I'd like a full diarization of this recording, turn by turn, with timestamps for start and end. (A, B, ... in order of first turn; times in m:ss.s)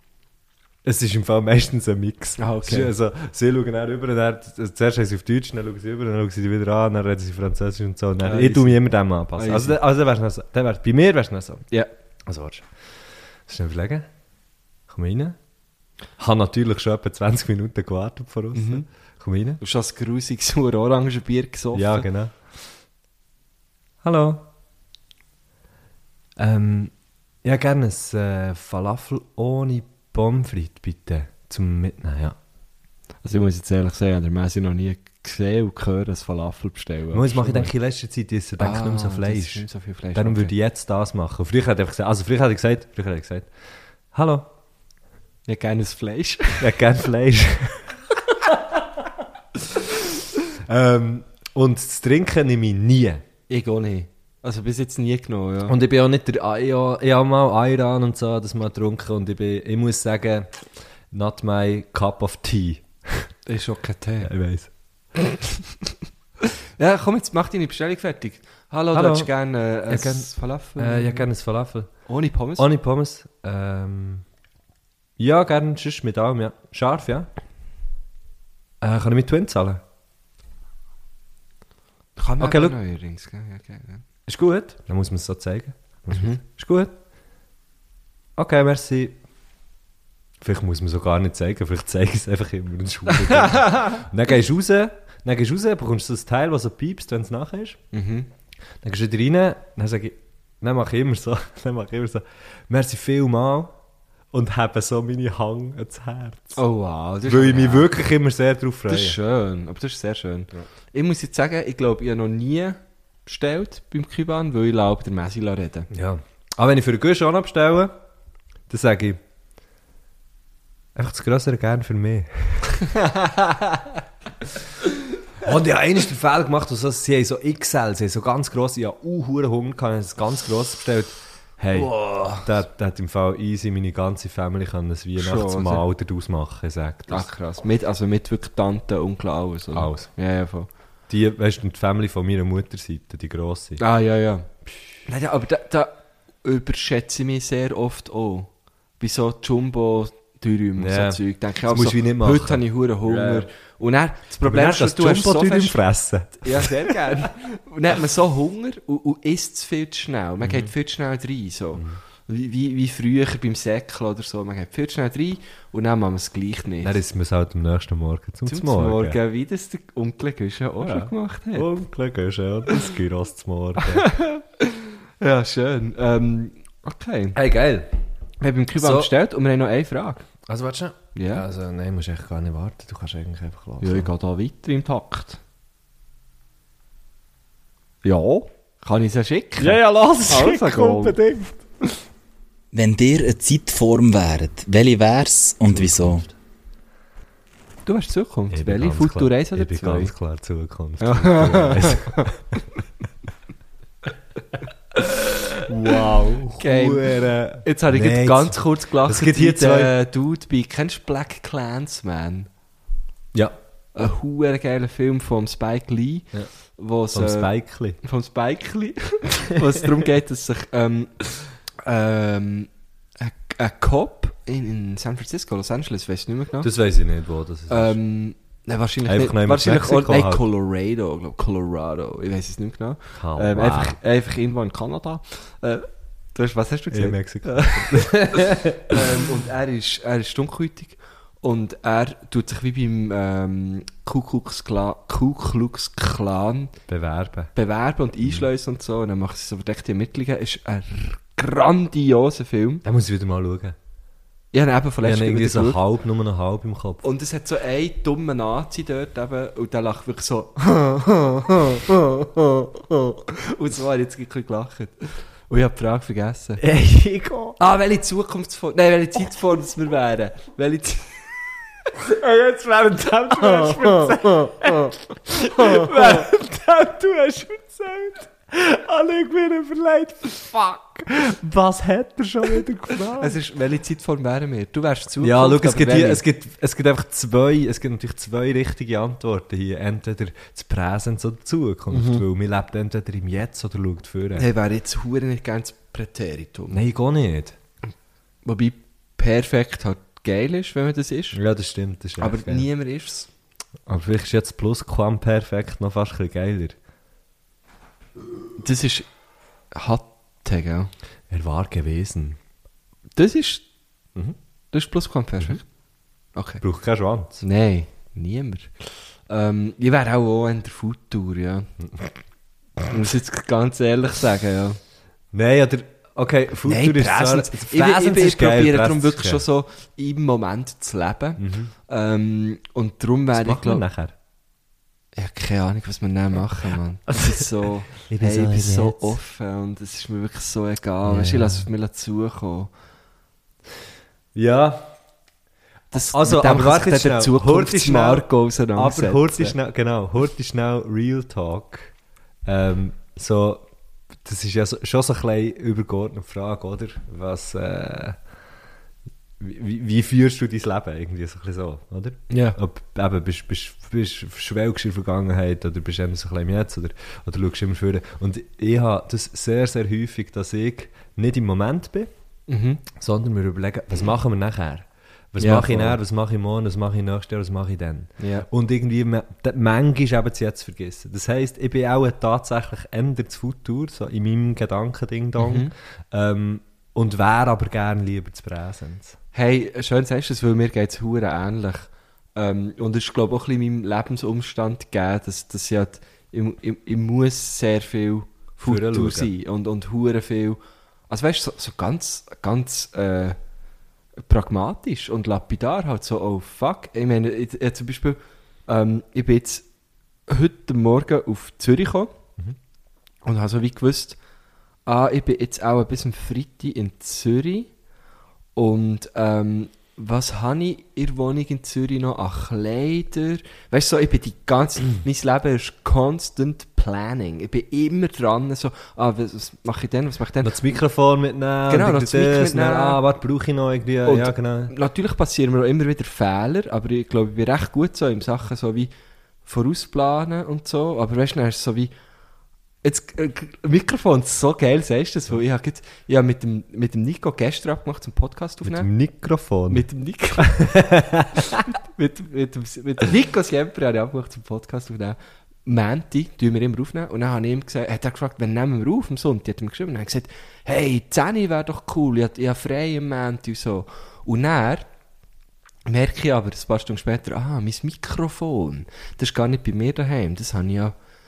0:00.8-0:11.7 A
0:02.4-0:02.9 B
0:08.2-0:09.8 B
0:12.3-0:12.7 A
0:13.5-0:14.1 A
0:14.9-0:15.4 A
0:16.2-0:19.6 A
0:18.5-0:18.9 B
0:19.6-0:22.1 B
0:21.7-0:22.4 A
0:24.0-0:24.5 A
0:26.4-0:26.9 A
0:27.4-0:32.4 A
0:33.2-0:37.7 B
0:37.1-0:43.5 A
0:38.6-0:40.5 B
0:44.1-0:44.5 A
0:45.5-0:46.7 B
0:46.6-0:48.0 A
0:50.7-0:53.2 A
0:53.5-0:55.8 B
0:55.7-1:03.3 A
1:03.5-1:04.3 B
1:04.2-1:04.7 A
1:06.8-1:11.3 B
1:08.9-1:09.3 A
1:09.9-1:11.9 A
1:12.1-1:12.7 B
1:12.6-1:14.2 A
1:15.2-1:17.3 A
1:18.8-1:19.8 A
1:22.2-1:24.0 B
1:22.4-1:22.8 A
1:24.3-1:26.9 A
1:26.1-1:26.4 B
1:28.4-1:29.2 A
1:30.4-1:37.8 A
1:33.3-1:34.0 B
1:37.9-1:38.3 B
1:38.8-1:43.8 A
1:44.3-1:46.6 A
1:46.6-1:47.9 B
1:47.2-1:49.2 A
1:48.9-1:55.9 B
1:55.9-1:58.0 A
1:58.7-1:59.2 A
2:01.0-2:02.8 A
2:03.0-2:03.9 B
2:05.4-2:17.3 A
2:11.7-2:12.5 B
2:15.2-2:15.8 B
2:17.1-2:20.7 B
2:19.7-2:20.1 A
2:21.1-2:23.8 A
2:23.8-2:24.5 B
2:25.1-2:35.8 B
2:30.8-2:33.5 A
2:34.4-2:37.1 A
2:36.4-2:47.0 B
2:40.4-2:40.7 A
2:46.8-2:49.2 A
2:48.5-2:51.7 B
2:50.8-2:54.1 A
2:53.8-2:57.4 B
2:57.4-2:57.9 A
2:58.4-3:00.3 B
2:58.8-2:59.1 A
3:00.5-3:04.1 A
3:01.2-3:01.4 B
3:03.8-3:05.4 B
3:08.0-3:11.2 B
3:09.6-3:11.6 A
3:12.7-3:16.2 C
3:15.7-3:16.3 A
3:17.9-3:20.1 B
3:18.5-3:22.6 A
3:21.0-3:22.3 B
3:25.0-3:30.0 A
3:25.8-3:26.0 B
3:26.5-3:32.5 B
3:34.0-3:46.7 B
3:37.1-3:38.0 A
3:46.6-3:48.0 A
3:47.7-4:06.7 B
3:49.1-3:50.4 A
3:53.2-3:54.0 A
3:56.9-3:59.0 A
4:06.9-4:07.5 A
4:07.6-4:12.8 B
4:12.8-4:13.8 A
4:14.5-4:15.8 B
4:15.0-4:17.1 A
4:17.0-4:26.6 B
4:26.6-4:27.6 A
4:27.6-4:31.3 B
4:32.0-4:43.4 A
4:33.4-4:34.7 B
4:35.5-4:36.3 B
4:43.2-4:46.2 B
4:45.2-4:54.4 A
4:51.9-4:52.2 B
4:54.4-4:56.8 B
4:56.7-4:57.6 A
4:58.4-5:01.4 B
5:01.3-5:02.7 A
5:02.2-5:03.3 B
5:03.9-5:06.8 A
5:08.6-5:09.1 B
5:09.7-5:10.9 B
5:11.3-5:12.4 A
5:13.2-5:13.6 B
5:14.7-5:15.6 B
5:16.4-5:16.6 B
5:16.6-5:17.4 A
5:17.4-5:21.7 B
5:22.9-5:24.8 B
5:25.3-5:29.4 A
5:26.6-5:33.9 B
5:31.4-5:31.7 A
5:33.3-5:34.1 A
5:35.2-5:42.7 B
5:38.1-5:39.2 A
5:41.0-5:41.7 A
5:44.4-5:44.9 A
5:45.9-5:49.6 B
5:45.9-5:51.9 A
5:52.5-5:53.7 A
5:54.2-5:58.2 A
5:59.4-6:12.1 A
6:02.3-6:02.6 B
6:12.5-6:12.8 B
6:13.0-6:29.2 A
6:15.4-6:16.0 B
6:18.2-6:18.5 B
6:25.4-6:25.7 B
6:29.3-6:43.4 B
6:38.6-6:39.3 A
6:44.3-6:49.7 B
6:50.3-6:52.2 B
6:53.2-6:54.2 B
6:54.9-6:57.7 B
6:58.6-7:10.6 B
7:10.4-7:14.7 A
7:11.7-7:13.0 B
7:14.0-7:18.9 B
7:19.4-7:21.9 B
7:22.8-7:28.9 B
7:28.6-7:29.8 A
7:29.7-7:30.7 B
7:30.4-7:31.6 A
7:31.4-7:44.9 B
7:45.9-7:50.9 B